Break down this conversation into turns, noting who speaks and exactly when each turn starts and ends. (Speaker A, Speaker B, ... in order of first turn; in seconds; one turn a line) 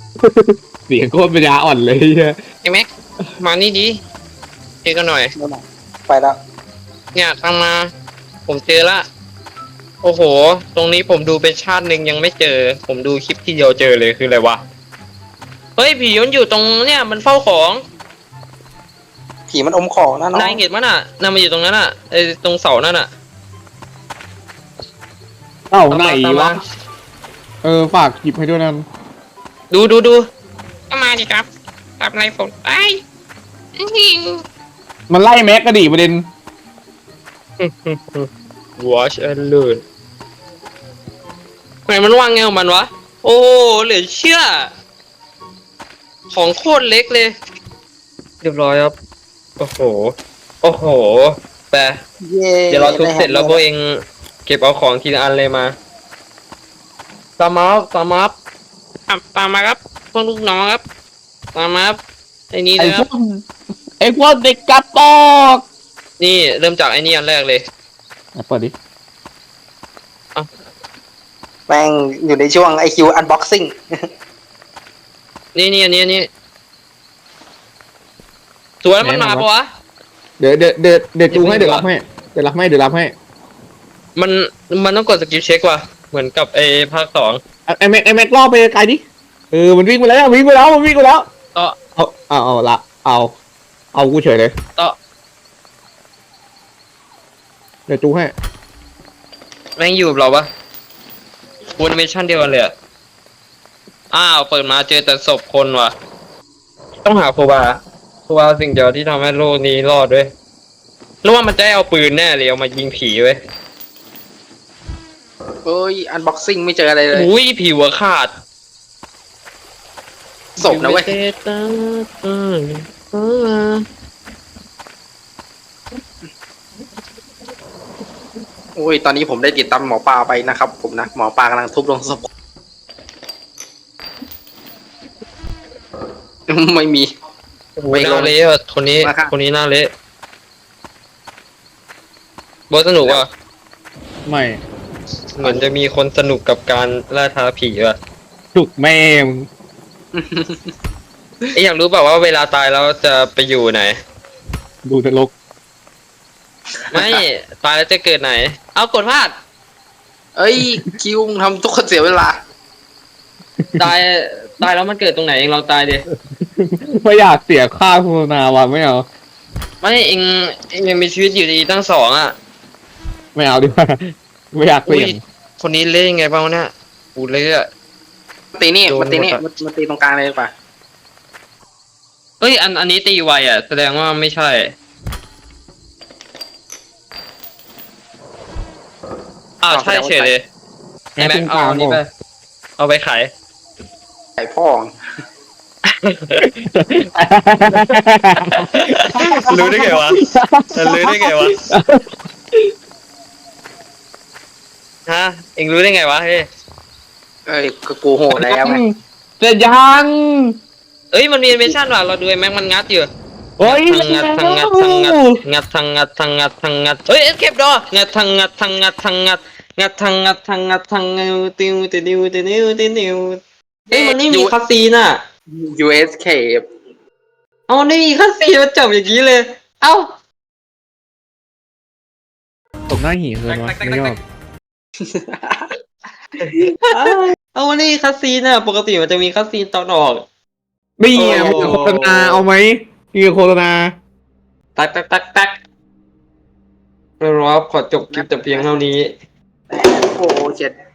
Speaker A: 0.2-2.3
Speaker B: 3.4-3.9
Speaker B: 4.8-5.3
Speaker C: 5.3-6.3
Speaker B: 7.1-7.9
Speaker B: 8.5-9.0
Speaker B: 10.0-14.6
Speaker B: 15.8-17.8
Speaker C: 19.5-20.6
Speaker B: 20.3-23.1
Speaker A: 25.7-26.6
Speaker B: 25.9-26.6
Speaker A: 27.6-28.9
Speaker B: 29.7-30.2
Speaker B: 30.9-31.4
Speaker B: 32.0-33.0
Speaker B: 33.8-34.4
Speaker A: 35.1-36.2
Speaker B: 37.6-39.8
Speaker B: 41.9-44.7
Speaker B: 46.3-47.3
Speaker B: 48.4-48.9
Speaker B: 49.6-52.0
Speaker C: 52.2-53.6
Speaker B: 52.7-53.9
Speaker B: 54.5-55.7
Speaker B: 57.4-58.3
Speaker B: 59.1-60.8
Speaker B: 61.5-62.0
Speaker B: 62.5-63.0
Speaker A: 62.8-63.4
Speaker A: 64.0-65.6
Speaker B: 66.2-67.6
Speaker A: 68.3-68.7
Speaker C: 71.7-73.8
Speaker B: 75.5-76.3
Speaker B: 78.8-79.7
Speaker A: 79.0-79.5
Speaker A: 80.4-83.1
Speaker B: 81.3-81.8
Speaker B: 84.2-87.4
Speaker A: 87.7-91.2
Speaker A: 92.0-93.3
Speaker A: 93.9-94.5
Speaker A: 97.9-98.3
Speaker B: 99.8-100.5
Speaker B: 101.8-102.7
Speaker B: 104.1-105.9
Speaker B: 107.0-110.3
Speaker B: 111.2-113.4
Speaker C: 115.6-117.3
Speaker B: 117.1-118.3
Speaker C: 120.6-121.1
Speaker B: 120.6-123.8
Speaker C: 128.8-132.2
Speaker C: 136.5-137.1
Speaker B: 137.8-139.9
Speaker C: 137.9-138.3
Speaker C: 139.0-139.3
Speaker B: 142.7-143.3
Speaker A: 144.3-144.6
Speaker B: 145.4-148.0
Speaker A: 148.5-149.5
Speaker C: 150.1-150.7
Speaker B: 151.5-153.9
Speaker A: 154.8-155.3
Speaker B: 156.9-159.3
Speaker C: 160.3-162.3
Speaker B: 163.8-166.0
Speaker A: 166.1-169.1
Speaker B: 169.8-172.3
Speaker A: 173.3-175.2
Speaker B: 174.8-177.7
Speaker C: 178.6-180.5
Speaker B: 178.9-179.4
Speaker B: 182.4-184.7
Speaker B: 189.6-190.4
Speaker C: 189.7-190.3
Speaker A: 191.2-192.0
Speaker B: 191.2-192.1
Speaker B: 192.8-193.3
Speaker C: 194.4-194.9
Speaker B: 196.0-197.1
Speaker A: 197.1-202.0
Speaker B: 197.7-197.9
Speaker B: 198.6-200.2
Speaker B: 200.8-201.6
Speaker B: 205.1-206.4
Speaker C: 207.5-208.8
Speaker A: 208.3-210.5
Speaker B: 211.1-213.1
Speaker A: 213.6-215.4
Speaker B: 213.6-223.4
Speaker C: 223.9-224.5
Speaker B: 223.9-225.2
Speaker C: 225.5-226.6
Speaker B: 227.7-230.1
Speaker A: 232.9-234.2
Speaker B: 233.5-234.2
Speaker C: 235.0-235.7
Speaker B: 236.4-240.2
Speaker A: 241.0-243.9
Speaker B: 241.1-242.4
Speaker C: 241.2-241.8
Speaker B: 244.8-245.5
Speaker B: 247.2-249.1
Speaker C: 248.1-248.8
Speaker C: 249.7-250.7